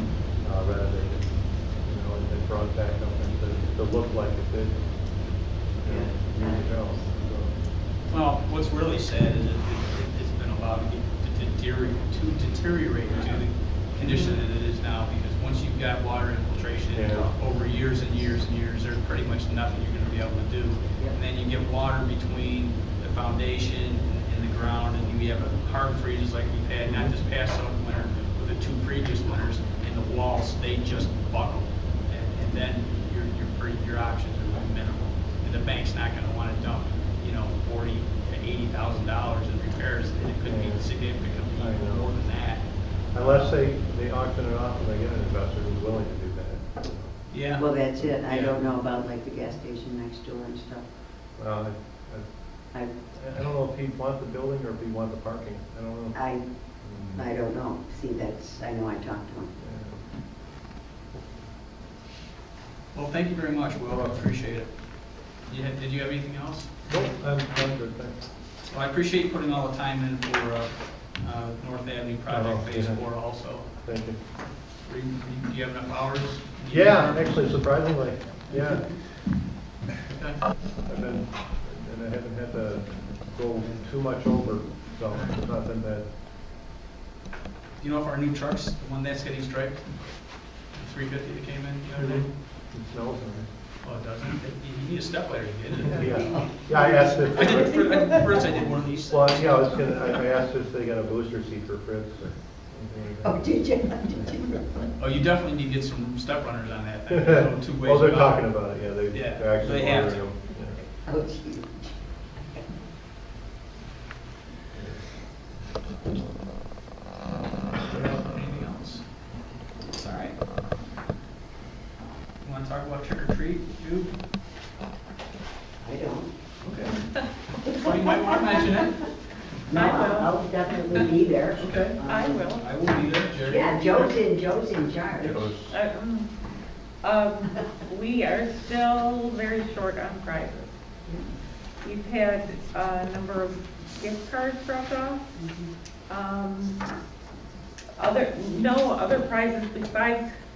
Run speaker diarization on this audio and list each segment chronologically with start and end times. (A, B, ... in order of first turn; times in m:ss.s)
0:00.4-0:04.8 A
0:05.8-0:07.5 A
0:05.8-0:06.8 B
0:08.1-0:43.5 C
0:14.0-0:14.3 B
0:16.9-0:17.3 A
0:26.8-0:27.1 A
0:40.4-0:40.9 A
0:41.6-0:42.1 A
0:43.1-0:47.3 A
0:47.3-0:47.7 C
0:47.6-0:50.8 B
0:48.2-0:48.6 C
0:51.4-0:52.3 A
0:53.1-0:56.2 A
0:56.1-0:59.5 B
0:56.8-0:57.2 A
0:59.6-1:00.0 A
1:02.9-1:04.7 C
1:05.4-1:06.9 C
1:06.9-1:08.2 A
1:08.7-1:13.7 C
1:12.3-1:13.0 A
1:13.8-1:14.2 A
1:14.8-1:17.3 C
1:16.7-1:18.9 A
1:20.1-1:20.4 C
1:20.8-1:26.1 A
1:25.1-1:25.4 C
1:27.8-1:29.8 C
1:30.7-1:32.3 C
1:32.0-1:33.5 A
1:33.8-1:36.4 C
1:35.9-1:37.7 A
1:35.9-1:38.6 B
1:37.3-1:39.9 C
1:39.1-1:43.4 A
1:43.2-1:44.6 B
1:45.0-1:48.6 C
1:47.1-1:50.8 A
1:49.1-1:50.2 C
1:51.1-1:51.9 B
1:54.7-1:55.0 A
1:57.8-1:59.0 C
1:59.9-2:00.4 C
2:02.4-2:04.1 C
2:05.8-2:06.3 B
2:06.6-2:07.0 C
2:07.6-2:09.1 C
2:07.9-2:08.1 B
2:07.9-2:08.4 D
2:09.7-2:12.5 B
2:09.7-2:10.4 D
2:11.6-2:11.9 C
2:12.0-2:12.7 D
2:12.6-2:14.1 C
2:13.4-2:15.5 B
2:15.2-2:15.7 A
2:15.7-2:16.3 D
2:17.0-2:20.7 D
2:21.8-2:25.2 D
2:26.1-2:26.8 D
2:28.0-2:30.3 D